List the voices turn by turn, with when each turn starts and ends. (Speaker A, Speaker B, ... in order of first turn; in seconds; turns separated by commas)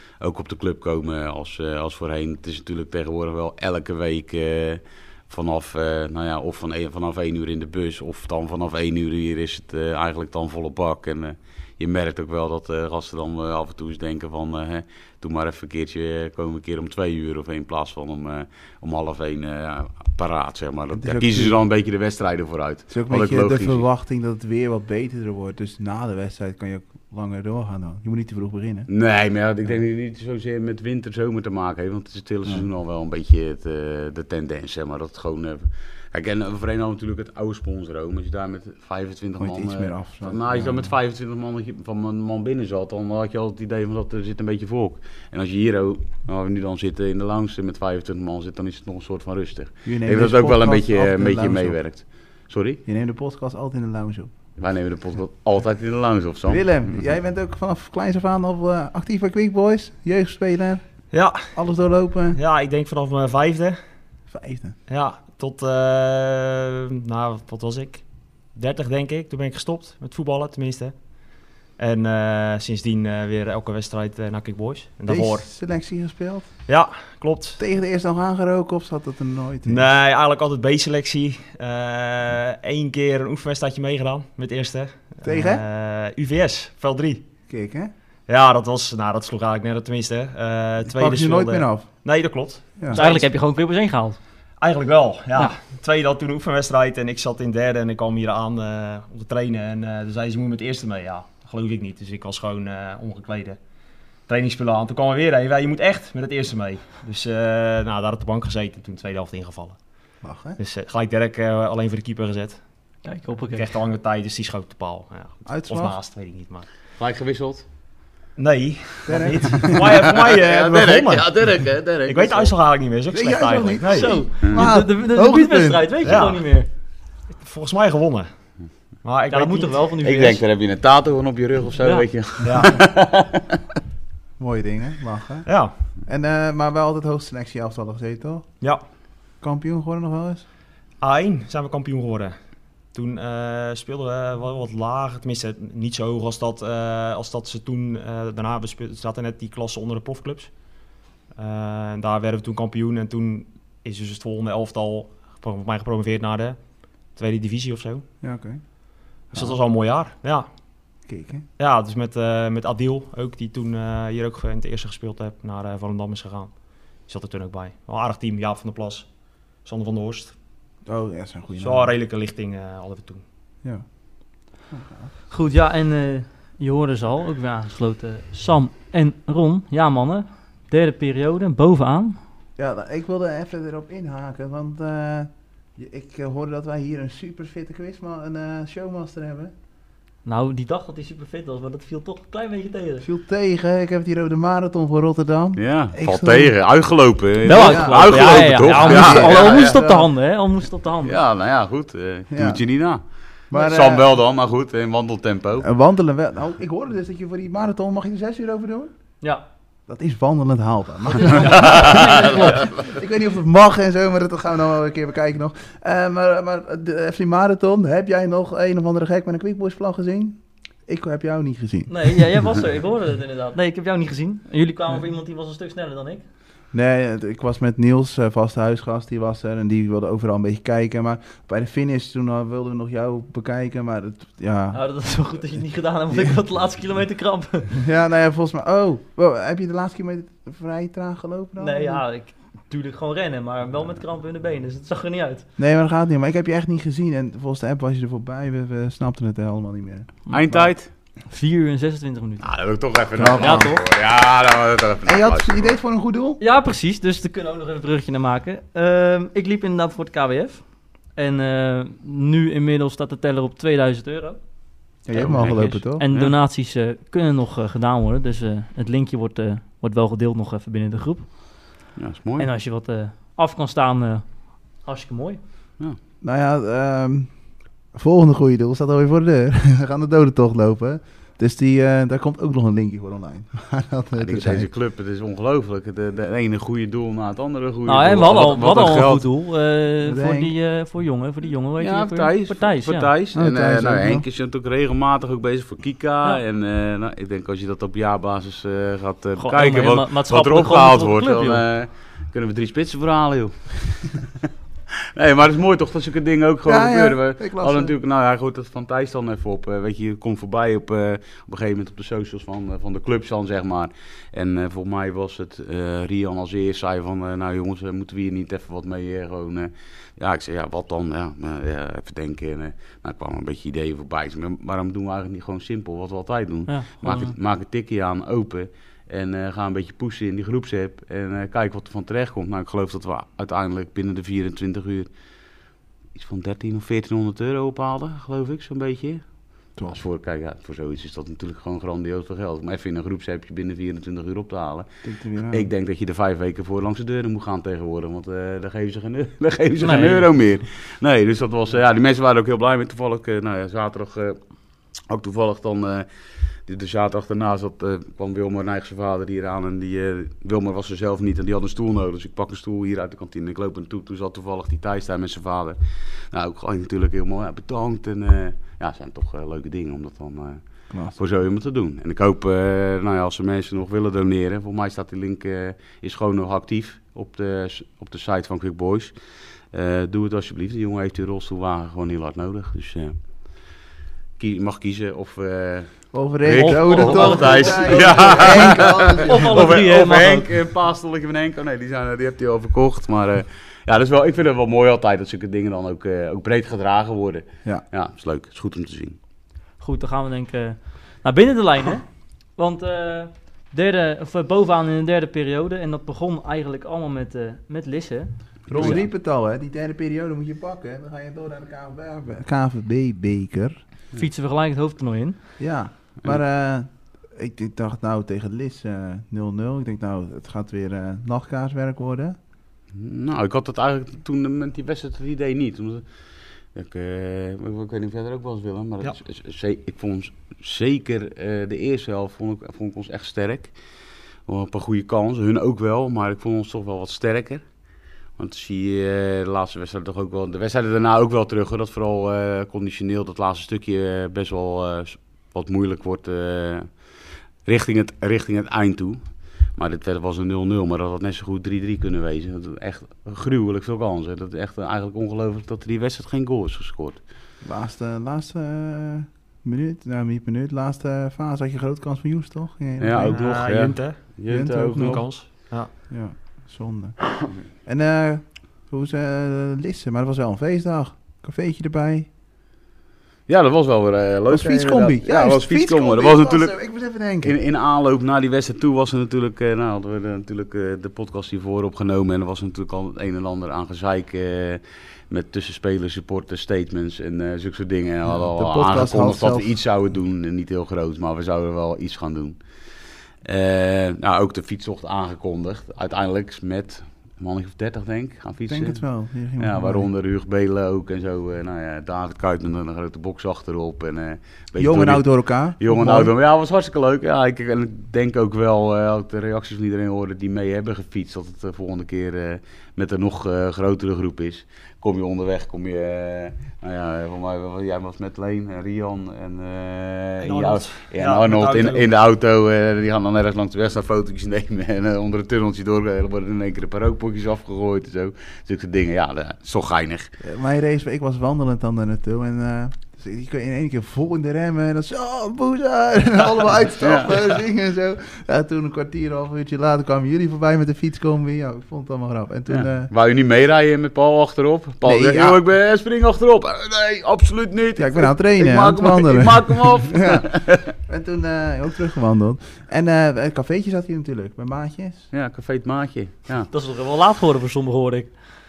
Speaker A: 0.2-23.8, Speaker B: 20.9-21.6, Speaker B: 22.9-28.9, Speaker A: 28.9-52.8, Speaker B: 39.4-40.9, Speaker B: 49.9-51.8, Speaker B: 52.9-54.3, Speaker A: 54.6-57.1, Speaker B: 56.5-62.4, Speaker C: 61.1-61.6, Speaker C: 62.3-63.8, Speaker B: 64.3-64.8, Speaker C: 64.9-75.4, Speaker B: 75.1-76.6, Speaker C: 76.7-77.6, Speaker B: 77.6-79.8, Speaker C: 79.7-87.2, Speaker B: 85.2-85.6, Speaker B: 87.5-87.9, Speaker C: 88.3-93.3, Speaker B: 90.9-91.9, Speaker D: 92.9-94.2, Speaker C: 94.6-103.6, Speaker C: 104.3-109.8, Speaker B: 110.2-110.6, Speaker C: 110.6-112.6, Speaker D: 113.0-113.7, Speaker C: 113.5-116.7, Speaker B: 115.5-116.0, Speaker A: 117.0-117.6, Speaker C: 118.4-121.3, Speaker B: 119.0-120.0, Speaker A: 119.7-122.5, Speaker C: 122.1-124.2, Speaker B: 123.1-125.9, Speaker D: 123.8-126.7, Speaker A: 124.4-124.7, Speaker C: 126.0-126.4, Speaker C: 127.3-128.3, Speaker C: 129.0-129.9, Speaker D: 129.3-130.4, Speaker A: 130.0-133.6, Speaker D: 131.8-132.0, Speaker C: 132.4-132.8, Speaker B: 134.4-135.5, Speaker C: 135.5-135.7, Speaker B: 136.0-138.6, Speaker B: 139.4-140.4, Speaker C: 141.0-142.3, Speaker C: 142.9-150.5, Speaker C: 151.3-156.6, Speaker C: 157.1-158.0, Speaker B: 158.2-158.6, Speaker B: 159.3-159.6, Speaker C: 159.3-160.5, Speaker B: 161.0-161.4, Speaker C: 161.6-170.3, Speaker B: 170.8-171.9, Speaker C: 171.6-173.2, Speaker B: 174.7-175.1, Speaker D: 175.3-182.2, Speaker B: 182.6-189.5, Speaker D: 190.2-193.1, Speaker B: 193.0-196.5, Speaker A: 195.6-199.8, Speaker D: 197.4-201.2, Speaker B: 197.5-200.1, Speaker A: 201.0-205.7, Speaker B: 202.3-202.6, Speaker B: 203.5-204.1, Speaker B: 205.6-208.9, Speaker B: 209.9-222.3, Speaker D: 211.3-212.5, Speaker A: 211.3-212.7, Speaker D: 221.9-226.2, Speaker B: 226.7-234.8, Speaker D: 234.7-237.8, Speaker B: 237.8-242.0, Speaker D: 241.6-245.4, Speaker B: 245.6-250.7, Speaker D: 250.3-250.5, Speaker A: 250.3-250.9, Speaker D: 251.3-252.5, Speaker A: 252.4-255.7, Speaker B: 253.2-253.7, Speaker D: 253.3-253.8, Speaker B: 255.0-256.4, Speaker D: 256.4-264.4, Speaker B: 265.0-266.0, Speaker A: 265.1-266.4, Speaker D: 266.0-271.4, Speaker A: 271.9-272.5, Speaker D: 272.4-274.3, Speaker D: 274.8-275.4, Speaker B: 276.2-277.3, Speaker B: 277.9-284.7, Speaker A: 284.2-289.2, Speaker D: 287.9-293.1, Speaker B: 290.0-290.5, Speaker A: 291.8-304.5, Speaker B: 293.3-294.2, Speaker D: 299.4-301.6, Speaker A: 305.1-335.1, Speaker B: 306.6-307.9, Speaker D: 326.7-327.3, Speaker A: 336.1-339.2, Speaker A: 339.8-344.9, Speaker B: 345.0-345.7, Speaker A: 345.5-354.4, Speaker D: 349.8-350.3, Speaker A: 355.1-356.1, Speaker A: 356.6-365.8, Speaker A: 366.3-370.6, Speaker B: 370.9-371.2, Speaker A: 371.1-379.1, Speaker A: 379.7-383.2, Speaker A: 384.4-399.2, Speaker B: 386.1-389.7, Speaker D: 386.5-390.5, Speaker D: 399.8-409.0, Speaker B: 408.7-413.8, Speaker A: 408.7-409.0, Speaker D: 414.1-415.4, Speaker B: 415.6-422.4, Speaker A: 422.9-426.0, Speaker A: 426.7-433.7, Speaker A: 434.4-437.6, Speaker A: 438.4-446.9, Speaker A: 447.6-449.2, Speaker A: 449.8-457.2, Speaker B: 457.6-463.6, Speaker A: 463.0-465.2, Speaker C: 463.3-464.3, Speaker B: 464.5-472.3, Speaker C: 464.9-465.9, Speaker A: 473.5-492.6, Speaker B: 474.5-477.5, Speaker B: 488.3-489.7, Speaker A: 493.4-499.0, Speaker B: 498.7-500.1, Speaker A: 499.6-505.2, Speaker B: 504.8-506.3, Speaker A: 505.8-530.3, Speaker C: 520.4-522.0, Speaker B: 530.4-543.1, Speaker A: 537.0-537.5, Speaker A: 542.7-550.9, Speaker B: 545.0-545.6, Speaker B: 548.0-550.5, Speaker B: 551.0-555.3, Speaker A: 555.3-556.7, Speaker D: 556.7-558.4